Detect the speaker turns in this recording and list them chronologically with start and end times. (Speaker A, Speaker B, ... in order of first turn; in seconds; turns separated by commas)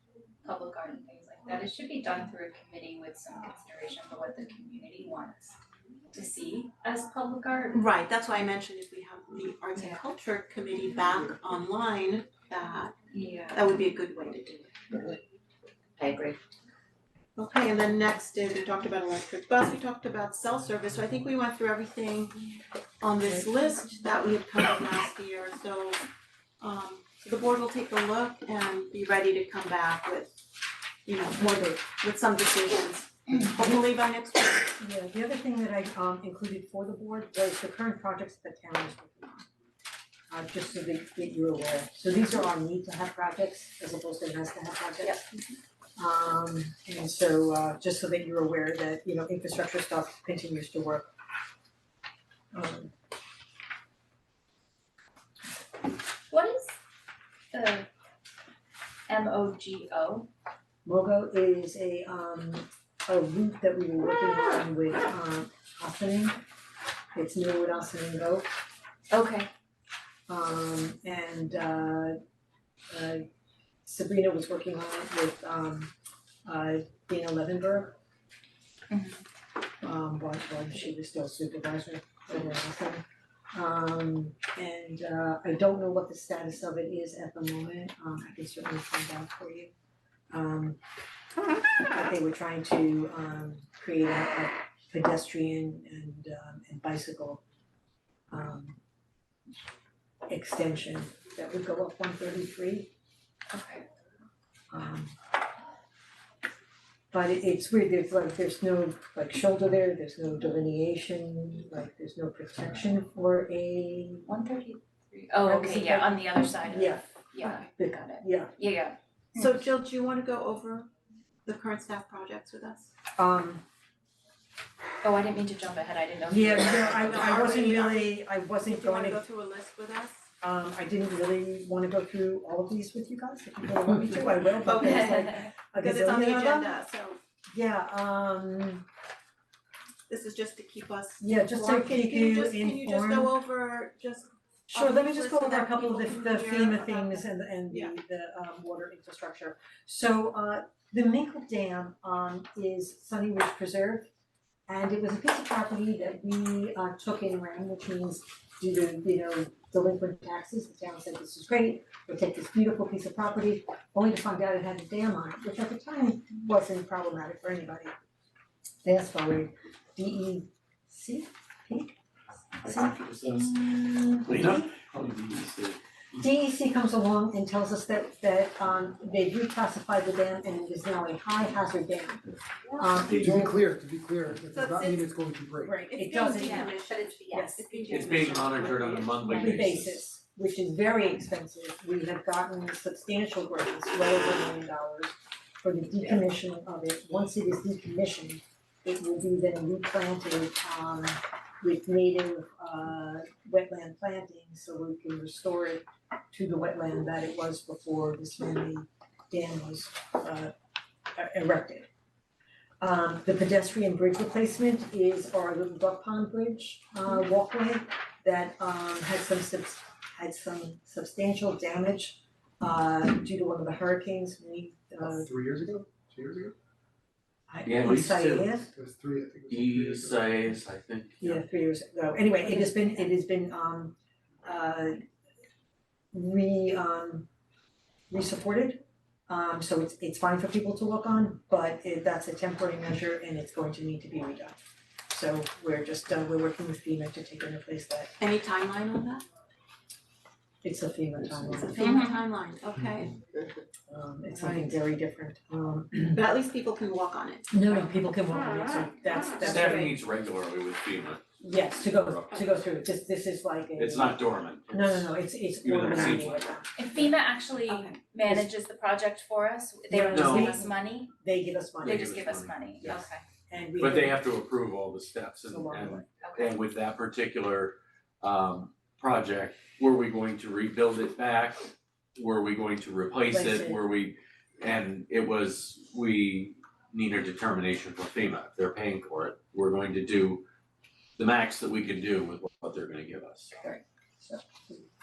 Speaker A: 0.4-5.6, Speaker A: 6.1-7.8, Speaker B: 7.7-12.9, Speaker A: 13.1-13.7, Speaker B: 13.5-15.2, Speaker B: 17.4-22.4, Speaker B: 23.0-26.0, Speaker B: 26.6-30.4, Speaker B: 31.1-34.8, Speaker C: 34.8-39.5, Speaker C: 40.3-45.2, Speaker B: 45.0-45.3, Speaker C: 46.0-51.1, Speaker C: 52.5-52.9, Speaker A: 56.3-56.8, Speaker A: 57.5-57.9, Speaker A: 59.1-60.3, Speaker C: 60.9-66.4, Speaker C: 67.2-68.5, Speaker A: 69.1-69.5, Speaker C: 70.3-72.2, Speaker C: 72.9-73.2, Speaker C: 73.8-75.9, Speaker C: 76.5-78.0, Speaker A: 78.9-79.2, Speaker C: 79.8-89.7, Speaker C: 90.3-90.8, Speaker C: 91.9-97.4, Speaker C: 98.3-98.8, Speaker C: 100.3-102.9, Speaker A: 103.5-103.9, Speaker C: 104.7-105.1, Speaker C: 107.1-114.3, Speaker A: 114.3-119.5, Speaker C: 115.4-118.5, Speaker B: 119.4-120.9, Speaker B: 121.5-122.9, Speaker C: 123.2-123.6, Speaker A: 125.0-127.5, Speaker C: 126.3-129.2, Speaker B: 127.0-130.3, Speaker C: 130.4-136.8, Speaker B: 134.7-137.2, Speaker C: 137.5-138.8, Speaker B: 140.1-147.9, Speaker C: 141.2-143.3, Speaker C: 144.7-154.1, Speaker C: 154.7-167.9, Speaker C: 168.8-171.9, Speaker C: 172.6-174.6, Speaker D: 172.6-175.8, Speaker C: 176.2-183.6, Speaker E: 183.0-185.8, Speaker B: 184.5-185.1, Speaker C: 185.6-187.7, Speaker B: 185.7-189.2, Speaker D: 187.9-190.1, Speaker C: 189.2-210.5, Speaker C: 211.2-211.9, Speaker C: 212.8-225.3, Speaker E: 225.0-226.6, Speaker C: 227.5-228.7, Speaker D: 227.6-228.6, Speaker E: 228.7-230.3, Speaker D: 229.5-231.4, Speaker C: 231.2-235.0, Speaker C: 236.1-237.3, Speaker C: 238.1-244.6, Speaker C: 245.1-248.1, Speaker B: 248.2-249.2, Speaker C: 250.6-251.9, Speaker B: 251.5-253.2, Speaker A: 251.8-252.2, Speaker C: 253.9-256.2, Speaker B: 256.1-257.7, Speaker C: 257.5-260.0, Speaker D: 259.4-261.2, Speaker C: 261.4-267.0, Speaker D: 263.8-266.5, Speaker A: 266.8-271.1, Speaker B: 267.7-268.0, Speaker C: 269.9-272.2, Speaker D: 270.1-270.5, Speaker A: 271.8-273.2, Speaker D: 271.9-273.0, Speaker C: 272.8-274.3, Speaker D: 273.8-290.4, Speaker C: 275.5-276.1, Speaker A: 276.2-276.6, Speaker C: 283.3-283.8, Speaker D: 291.2-293.5, Speaker C: 293.6-294.9